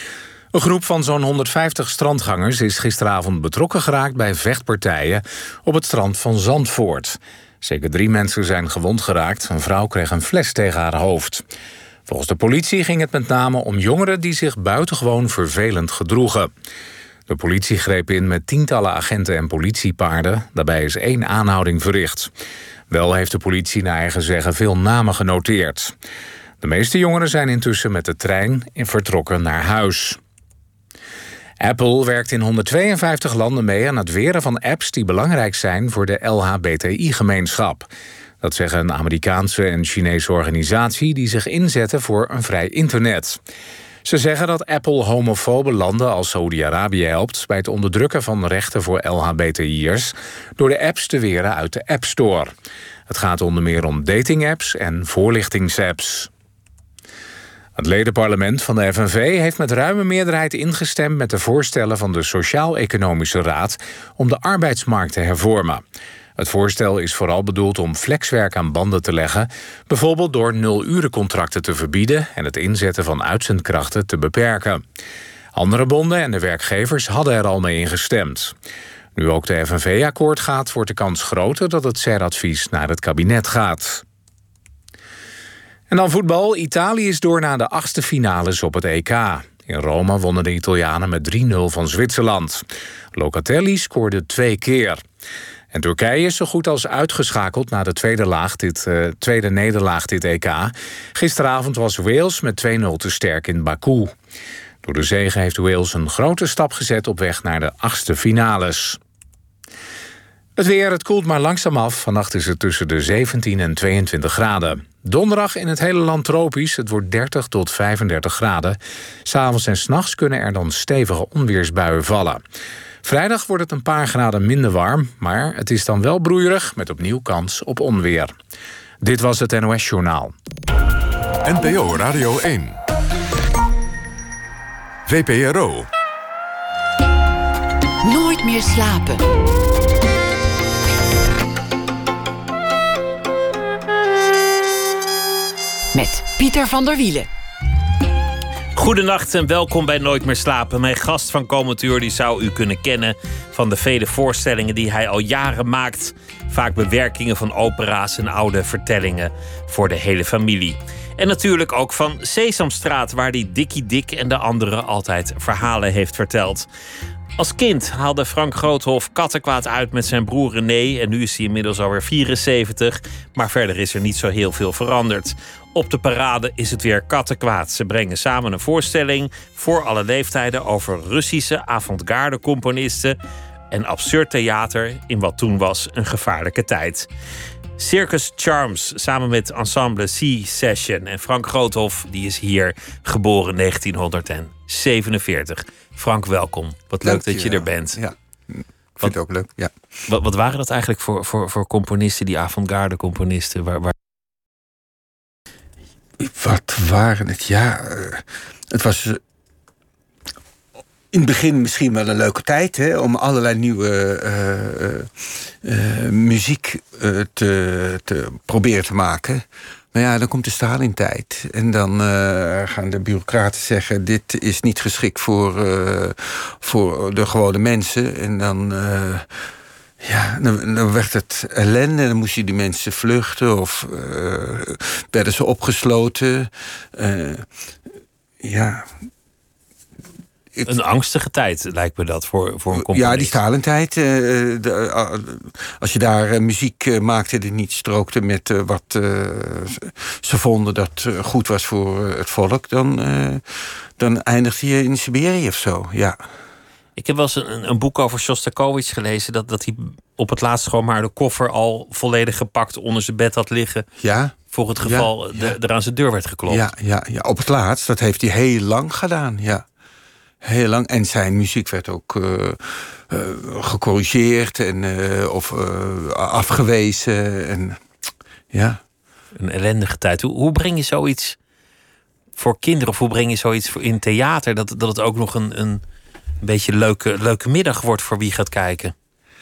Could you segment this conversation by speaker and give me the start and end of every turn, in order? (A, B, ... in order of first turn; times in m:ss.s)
0:00.5-0:11.4 A
0:12.1-0:16.5 A
0:17.3-0:22.3 A
0:22.9-0:25.9 A
0:26.6-0:30.2 A
0:31.6-0:37.8 A
0:38.4-0:43.4 A
0:44.0-0:52.5 A
0:53.1-0:56.3 A
0:57.8-1:05.8 A
1:06.4-1:14.8 A
1:15.5-1:18.5 A
1:19.2-1:24.0 A
1:25.9-1:35.0 A
1:35.7-1:44.1 A
1:44.8-1:49.0 A
1:50.6-2:02.4 A
2:03.0-2:08.3 A
2:09.0-2:10.3 A
2:11.4-2:12.8 B
2:15.1-2:15.9 B
2:18.0-2:19.2 C
2:25.9-2:27.3 C
2:28.7-2:46.7 D
2:47.4-3:03.2 D
3:03.7-3:07.1 D
3:07.8-3:18.0 D
3:17.0-3:19.7 E
3:20.0-3:23.9 D
3:26.2-3:29.2 E
3:31.1-3:49.5 E
3:50.0-3:57.4 E
3:58.4-3:58.9 E
4:00.6-4:03.3 D
4:02.7-4:16.2 E
4:17.0-4:23.8 D
4:24.0-4:25.5 E
4:24.5-4:26.6 D
4:26.5-4:29.6 E
4:30.4-4:37.8 E
4:38.5-4:38.8 E
4:39.4-4:41.4 D
4:42.4-4:45.8 D
4:46.4-4:48.9 D